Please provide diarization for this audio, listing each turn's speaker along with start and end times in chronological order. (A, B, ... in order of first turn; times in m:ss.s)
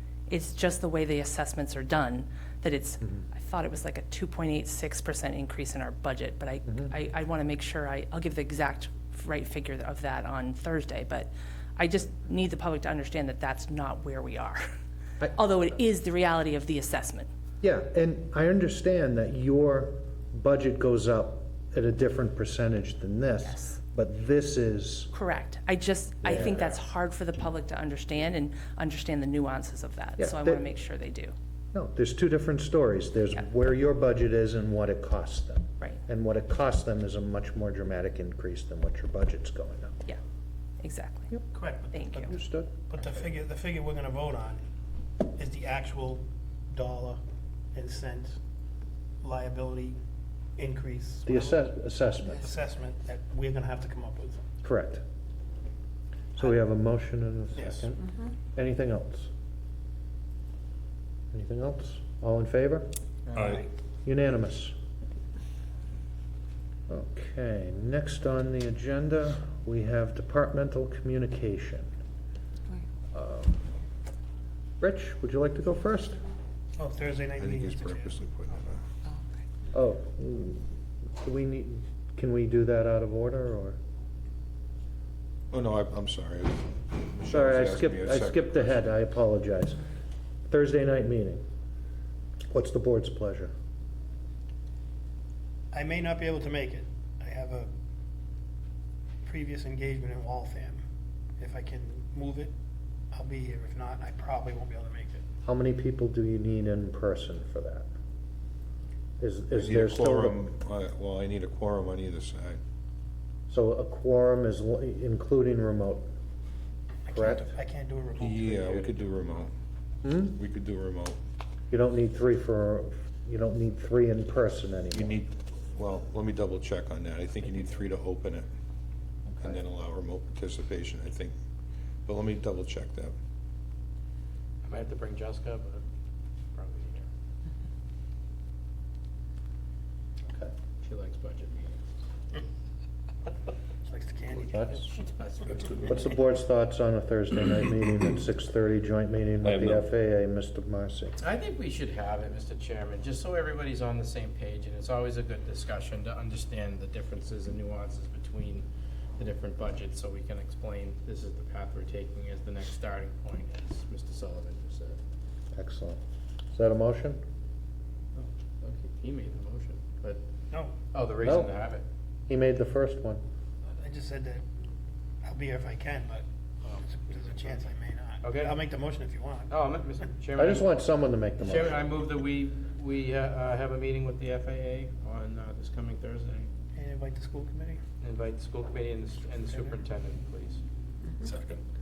0:00.3-0:14.6 A
0:15.3-0:17.3 A
0:17.6-0:25.1 B
0:23.4-0:23.8 A
0:25.1-0:31.3 A
0:26.2-0:26.8 B
0:30.2-0:30.6 B
0:31.7-0:40.0 B
0:40.8-0:41.3 A
0:41.6-0:42.2 C
0:41.9-0:42.3 A
0:42.2-0:42.8 B
0:42.9-0:44.7 C
0:45.2-0:48.4 C
0:49.2-0:50.0 C
0:50.6-0:51.6 C
0:51.3-0:52.5 B
0:52.4-0:54.4 C
0:54.6-0:55.0 B
0:56.4-0:59.3 B
0:57.6-0:57.9 C
1:01.3-1:02.9 B
1:03.4-1:03.7 C
1:04.0-1:04.7 B
1:06.9-1:11.9 B
1:13.1-1:13.6 B
1:14.8-1:16.2 B
1:16.8-1:18.6 C
1:17.4-1:18.8 D
1:19.7-1:23.8 B
1:25.5-1:28.8 D
1:27.3-1:29.9 B
1:30.5-1:31.4 B
1:32.5-1:33.5 B
1:35.7-1:37.7 C
1:39.2-1:40.8 C
1:41.4-1:42.5 C
1:43.1-1:45.2 C
1:45.4-1:47.9 B
1:49.2-1:50.4 B
1:49.6-1:52.6 D
1:53.5-1:56.1 B
1:57.1-1:58.8 C
1:57.1-1:57.5 B
1:58.2-1:59.5 D
2:00.0-2:00.4 B
2:00.3-2:01.2 D
2:01.7-2:05.2 B
2:04.9-2:08.5 D
2:09.4-2:11.4 D
2:12.1-2:13.1 D
2:14.6-2:15.8 E
2:16.6-2:17.1 E
2:20.8-2:21.8 E
2:23.9-2:24.7 C
2:24.4-2:24.9 B
2:24.9-2:25.9 E
2:25.8-2:31.2 B
2:31.2-2:38.7 E
2:39.2-2:45.0 E
2:45.5-2:46.0 B
2:46.5-2:47.2 B
2:48.2-2:50.2 E
2:50.9-2:51.8 E
2:51.2-2:51.5 B
2:52.3-2:53.2 B
2:53.8-2:54.5 C
2:55.2-2:56.3 C
2:56.8-2:59.5 C
2:58.2-2:58.6 E
2:59.5-3:00.7 E
3:00.4-3:01.9 B
3:01.4-3:06.5 E
3:06.8-3:07.8 C
3:08.0-3:10.6 E
3:11.2-3:11.6 E